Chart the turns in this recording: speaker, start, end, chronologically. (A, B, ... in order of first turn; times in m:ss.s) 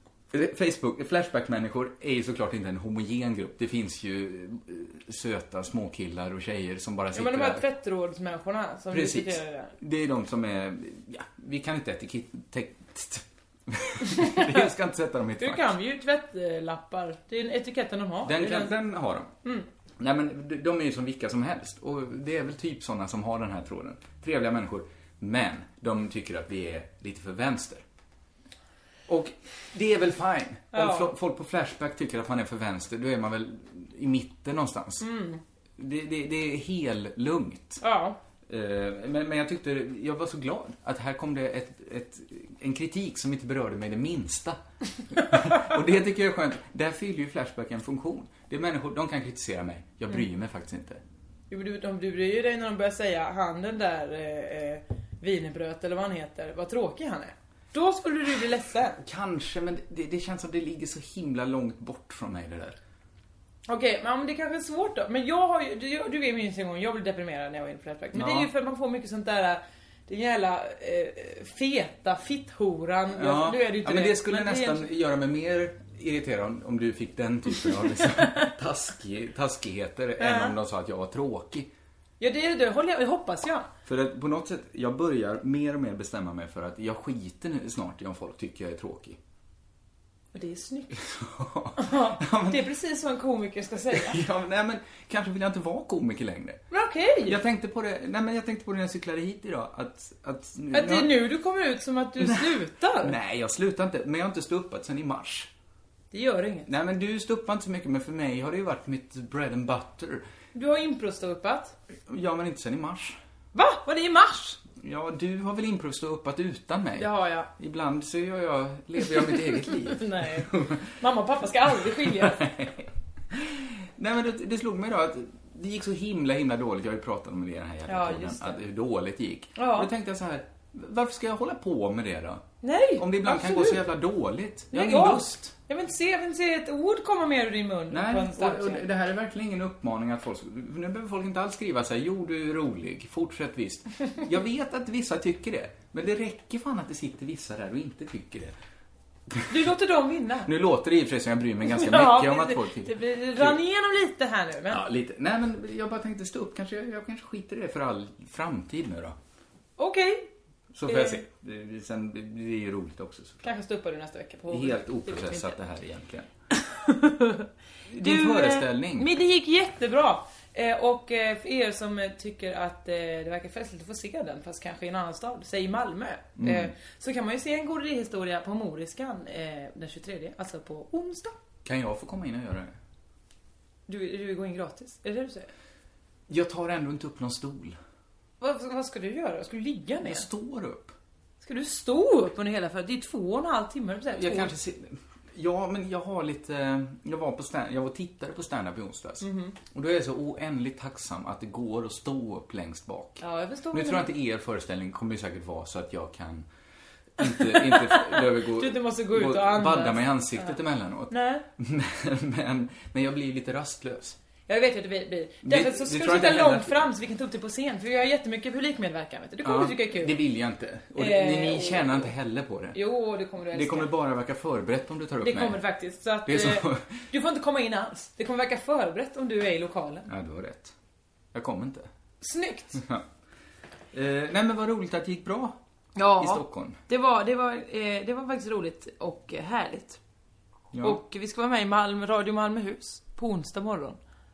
0:00.3-0:07.6 A
0:07.1-0:09.7 B
0:08.9-0:15.7 A
0:14.0-0:14.6 B
0:15.4-0:18.7 B
0:18.2-0:19.3 A
0:20.0-0:27.8 A
0:29.1-0:35.0 A
0:30.7-0:31.1 B
0:35.0-0:35.4 B
0:35.8-0:37.8 A
0:37.8-0:38.2 B
0:38.5-0:44.6 A
0:45.1-0:51.0 A
0:51.5-0:59.0 B
0:59.0-1:02.8 A
1:03.7-1:14.9 B
1:08.1-1:08.5 A
1:13.1-1:21.7 A
1:20.2-1:20.6 B
1:22.2-1:23.7 B
1:23.8-1:29.2 A
1:30.3-1:31.0 B
1:30.9-1:32.6 A
1:31.8-1:34.2 B
1:33.9-1:36.6 A
1:36.7-1:37.4 B
1:37.2-1:41.2 A
1:40.7-1:43.1 B
1:42.2-1:45.5 A
1:46.1-1:46.7 B
1:46.7-1:50.2 A
1:50.5-1:51.7 B
1:52.1-1:53.2 A
1:53.5-1:54.6 B
1:54.8-2:00.9 A
1:57.0-1:57.5 B
1:59.7-2:02.4 B
2:01.9-2:12.4 A
2:07.9-2:08.6 B
2:09.6-2:09.9 B
2:12.6-2:13.8 B
2:13.0-2:15.5 A
2:14.7-2:18.8 B
2:17.9-2:28.5 A
2:29.3-2:29.6 A
2:29.5-2:30.5 B
2:30.4-2:33.6 A
2:31.7-2:34.8 B
2:34.7-2:39.2 A
2:39.8-2:40.3 B
2:40.7-2:43.4 A
2:40.9-2:41.2 B
2:43.4-2:45.5 B
2:44.5-2:46.3 A
2:46.6-3:01.4 B
2:47.9-2:49.1 A
2:56.4-2:56.7 A
3:01.6-3:02.7 A
3:03.9-3:05.5 B
3:06.3-3:07.8 A
3:08.4-3:10.2 B
3:10.0-3:10.9 A
3:11.4-3:14.5 B
3:14.1-3:26.5 A
3:19.2-3:19.6 B
3:23.2-3:24.1 B
3:27.2-3:34.2 A
3:27.3-3:30.5 B
3:31.1-3:31.4 B
3:34.5-3:40.2 B
3:35.4-3:36.9 A
3:39.4-3:42.8 A
3:41.0-3:42.1 B
3:42.7-3:43.9 B
3:43.5-3:45.6 A
3:45.2-3:50.1 B
3:46.2-3:47.0 A
3:50.1-3:50.7 A
3:51.3-3:51.9 A
3:52.2-3:52.8 B
3:52.7-3:53.0 A
3:53.9-3:55.6 A
3:56.0-4:00.0 B
3:56.2-3:56.8 A
4:00.7-4:01.0 A
4:00.8-4:04.0 B